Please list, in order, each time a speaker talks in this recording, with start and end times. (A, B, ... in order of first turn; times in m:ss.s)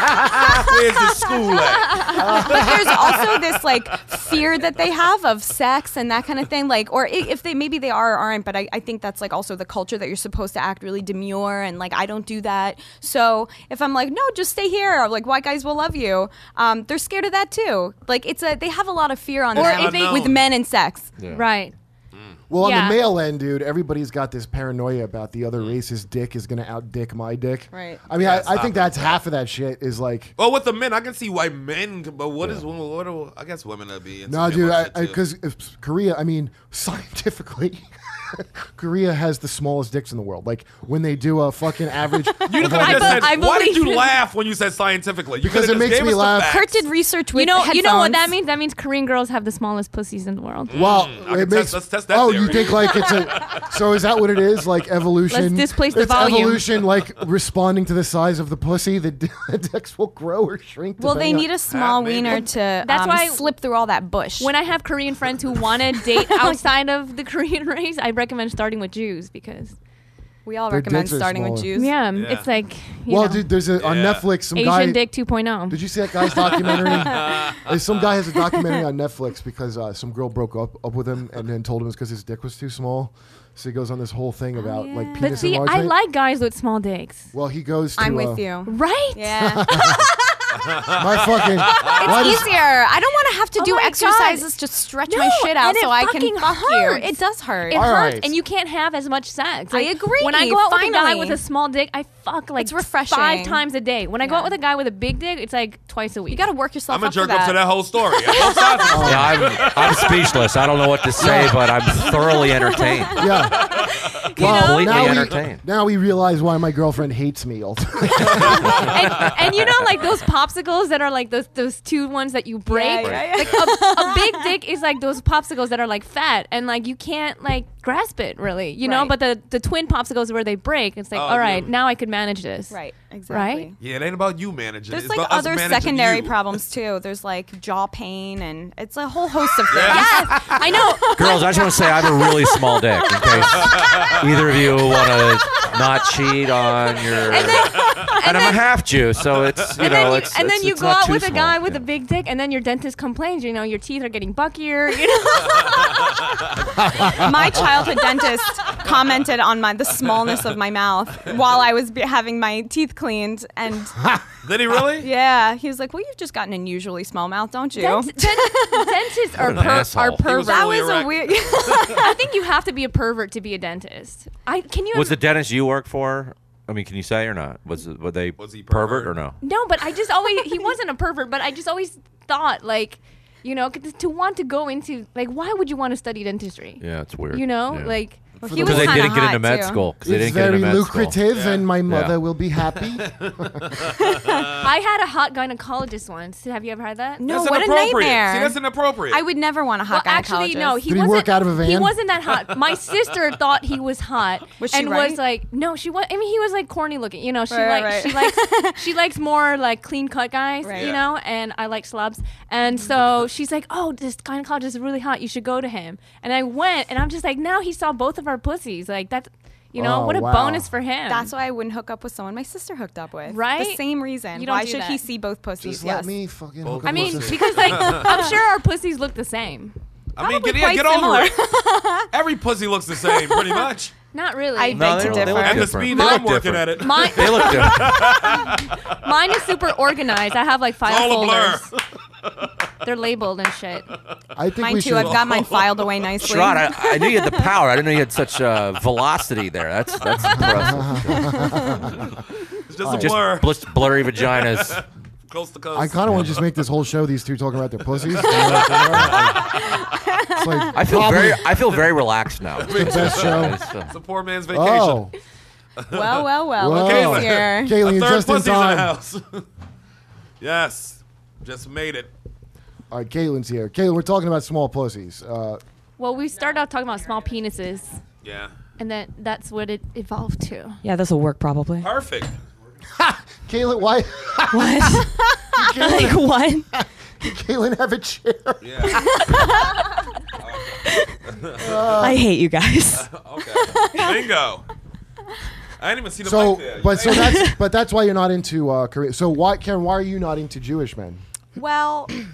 0:00.4-0:03.4 A
0:00.5-0:21.1 B
0:02.0-0:02.3 C
0:02.2-0:03.0 D
0:19.5-0:20.4 A
0:19.5-0:20.3 C
0:21.3-0:21.7 C
0:22.1-0:22.4 A
0:22.5-0:30.3 D
0:22.6-0:23.0 C
0:27.7-0:28.0 B
0:28.2-0:29.2 A
0:30.4-0:35.2 A
0:34.3-0:43.4 D
0:42.4-0:46.8 A
0:42.6-0:44.2 C
0:45.4-0:46.6 D
0:46.4-0:48.4 B
0:47.3-0:50.9 C
0:50.7-0:53.7 A
0:50.7-1:01.5 D
0:55.3-0:56.7 C
1:01.0-1:04.5 B
1:01.7-1:02.5 A
1:02.8-1:03.5 C
1:04.4-1:09.8 C
1:06.0-1:06.6 B
1:10.4-1:12.0 B
1:10.7-1:11.7 D
1:11.7-1:13.5 C
1:12.1-1:12.5 A
1:13.1-1:15.0 D
1:13.8-1:14.3 A
1:14.5-1:15.8 C
1:15.7-1:26.0 D
1:16.4-1:18.1 A
1:16.6-1:17.5 B
1:24.6-1:25.6 B
1:25.2-1:27.3 C
1:27.3-1:28.4 D
1:28.0-1:31.0 B
1:28.6-1:29.9 C
1:29.4-1:30.1 D
1:30.7-1:32.0 A
1:30.9-1:32.5 D
1:31.7-1:37.8 B
1:32.1-1:32.4 C
1:33.6-1:34.5 C
1:35.1-1:37.2 C
1:37.7-1:46.5 C
1:37.7-1:38.3 D
1:39.7-1:41.4 B
1:42.6-1:43.6 B
1:44.2-1:44.5 B
1:46.3-1:49.2 B
1:46.9-1:50.9 A
1:48.9-1:49.5 D
1:49.0-1:53.3 E
1:51.2-1:51.6 D
1:52.4-1:53.1 B
1:53.2-1:53.7 D
1:53.6-1:54.0 A
1:53.6-1:55.3 C
1:54.4-1:55.6 E
1:54.4-1:59.2 D
1:58.6-2:12.8 C
1:58.7-1:59.8 E
2:02.7-2:04.5 B
2:03.0-2:03.4 E
2:08.8-2:09.1 B
2:11.1-2:11.7 A
2:12.7-2:13.7 B
2:13.3-2:13.7 C
2:13.8-2:16.4 A
2:14.9-2:28.7 B
2:19.7-2:20.2 A
2:19.8-2:22.5 C
2:21.2-2:31.8 E
2:23.3-2:24.3 A
2:29.8-2:36.2 C
2:29.8-2:30.3 B
2:36.9-2:44.0 B
2:37.0-2:37.3 D
2:44.4-2:45.1 A
2:45.0-2:49.0 B
2:47.8-2:50.8 C
2:49.4-2:50.3 E
2:49.6-2:52.0 A
2:50.2-2:52.2 B
2:51.9-2:55.2 C
2:54.9-2:59.4 E
2:58.4-2:59.1 A
2:59.4-3:09.2 C
3:06.8-3:08.0 E
3:08.4-3:09.8 B
3:08.4-3:08.9 D
3:08.6-3:11.2 E
3:10.0-3:13.9 D
3:11.3-3:11.7 A
3:11.9-3:12.2 E
3:13.0-3:14.0 A
3:14.5-3:17.3 C
3:17.2-3:18.6 B
3:17.3-3:19.2 A
3:19.1-3:20.8 B
3:19.9-3:41.3 C
3:20.9-3:22.0 D
3:24.6-3:25.2 B
3:27.5-3:28.8 B
3:30.6-3:31.0 B
3:30.7-3:31.0 A
3:39.7-3:40.7 D
3:41.1-3:46.1 B
3:43.3-3:43.8 C
3:44.3-3:45.0 C
3:45.6-3:48.0 D
3:46.6-3:48.2 A
3:46.8-3:49.7 C
3:47.7-3:48.4 B
3:50.1-3:51.3 A
3:50.2-3:52.1 B
3:52.1-3:53.9 A
3:53.0-3:53.6 B
3:54.1-4:01.7 C
3:54.6-3:55.9 B
3:54.7-3:58.2 E
3:55.3-3:58.9 A
4:00.8-4:01.8 A
4:02.8-4:03.9 C
4:04.4-4:05.4 D
4:04.6-4:07.5 B
4:04.9-4:06.4 A
4:06.2-4:11.7 E
4:10.2-4:12.1 D
4:11.4-4:11.8 B
4:12.6-4:16.4 A
4:12.8-4:13.2 D
4:12.9-4:14.8 E
4:15.7-4:19.7 D
4:18.0-4:19.8 A
4:19.5-4:20.8 B
4:20.3-4:21.5 D
4:20.7-4:24.0 E
4:22.6-4:25.1 A
4:22.7-4:23.6 D
4:24.5-4:25.1 D
4:25.8-4:29.4 A
4:25.9-4:27.8 B
4:26.6-4:28.9 D
4:30.4-4:32.1 A
4:32.9-4:35.6 D
4:36.0-4:38.0 C
4:38.2-4:38.5 A
4:38.8-4:40.8 C
4:40.8-4:41.9 F
4:41.8-4:42.3 A
4:43.0-4:49.1 D
4:44.5-4:46.6 F
4:46.2-4:46.6 C
4:48.6-4:49.2 A
4:49.0-4:49.4 B
4:50.4-4:52.1 A
4:51.6-4:52.2 D
4:52.0-4:53.1 F
4:52.9-4:54.6 A
4:55.8-4:57.5 A
4:56.2-5:01.2 D
4:57.3-4:57.6 F
5:01.6-5:02.2 B